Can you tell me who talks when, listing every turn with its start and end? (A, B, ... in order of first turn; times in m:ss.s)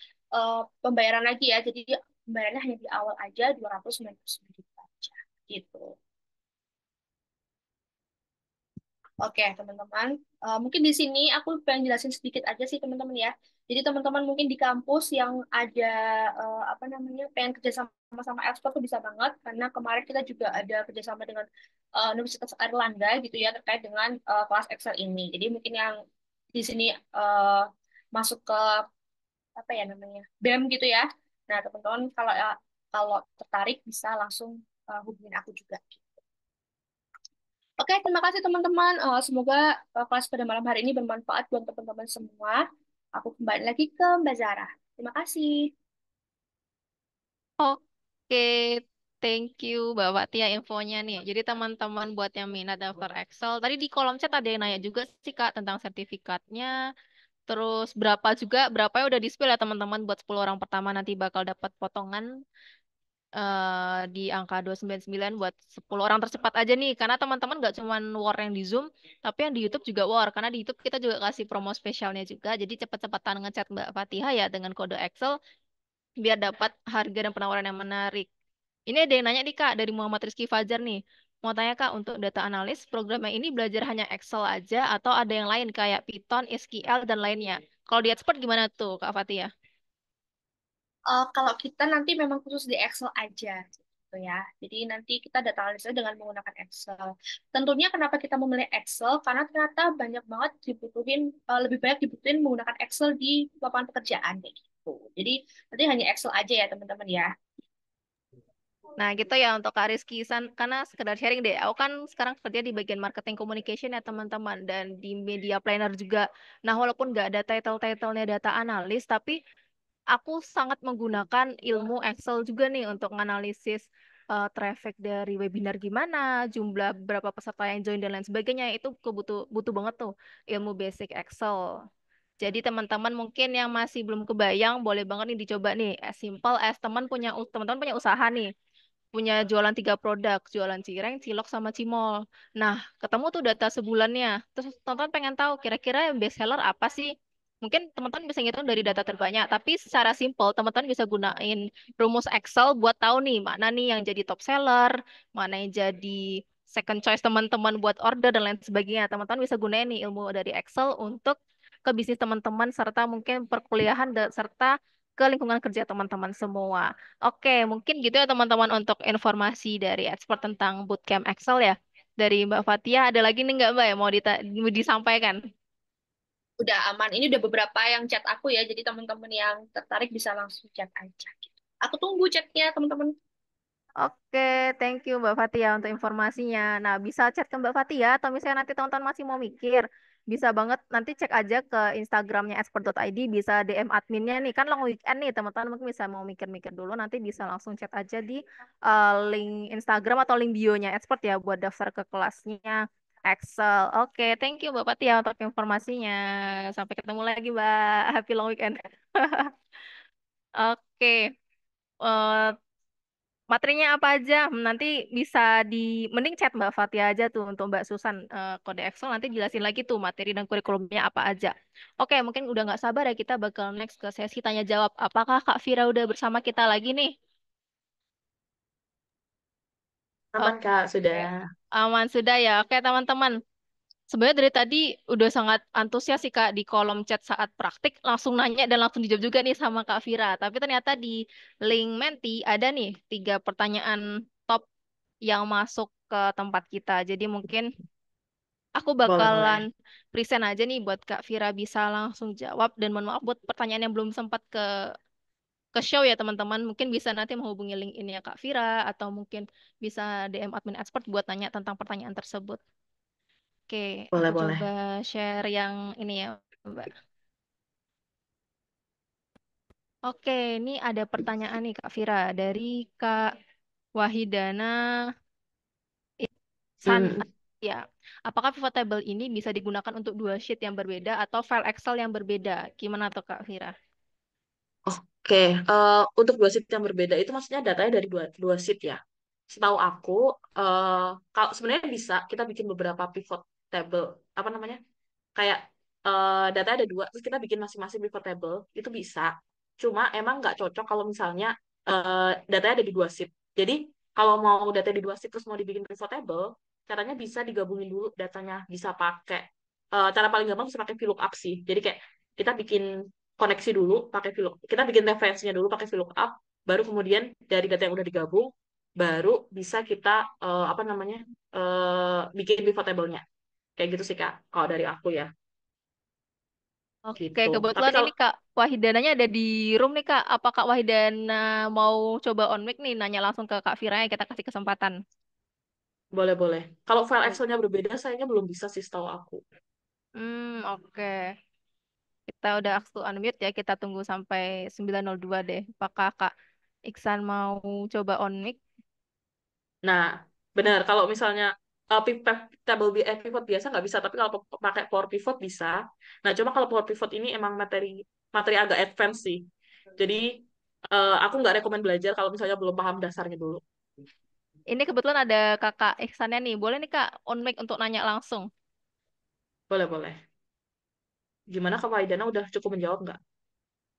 0:00.4-0:06.0 A
0:09.2-0:25.9 A
0:26.6-0:28.8 A
0:29.6-0:36.2 A
0:37.8-0:42.6 A
0:43.2-0:45.7 A
0:48.3-0:56.7 B
0:57.5-1:02.3 B
1:03.4-1:15.3 B
1:16.2-1:18.3 B
1:18.9-1:29.5 B
1:31.1-1:47.3 A
1:49.0-1:59.4 B
2:00.2-2:11.6 B
2:12.4-2:18.5 B
2:19.1-2:55.4 B
2:56.6-3:03.2 A
3:04.0-3:29.5 B
3:30.6-3:31.2 B
3:32.0-3:32.6 B
3:33.5-3:47.1 B
3:50.3-3:51.4 C
3:51.8-3:53.3 B
3:54.1-4:04.6 B
4:05.3-4:07.7 B
4:08.8-4:14.6 B
4:09.1-4:09.6 C
4:15.8-4:22.6 B
4:23.7-4:26.9 B
4:24.1-4:24.6 C
4:30.1-4:33.2 B
4:34.0-4:34.8 B
4:36.8-4:37.2 C
4:36.9-4:43.7 B
4:44.9-4:54.8 C
4:55.4-5:12.9 C
5:13.4-5:23.2 C
5:23.8-5:25.3 C
5:27.1-5:34.9 B
5:27.2-5:28.1 C
5:36.2-5:39.4 C
5:40.2-5:41.3 B
5:42.3-5:46.3 B
5:46.9-5:48.6 B
5:49.8-5:59.4 C
6:00.0-6:00.3 C
6:00.9-6:03.6 C
6:04.7-6:08.5 B
6:09.7-6:10.2 C
6:11.5-6:13.2 C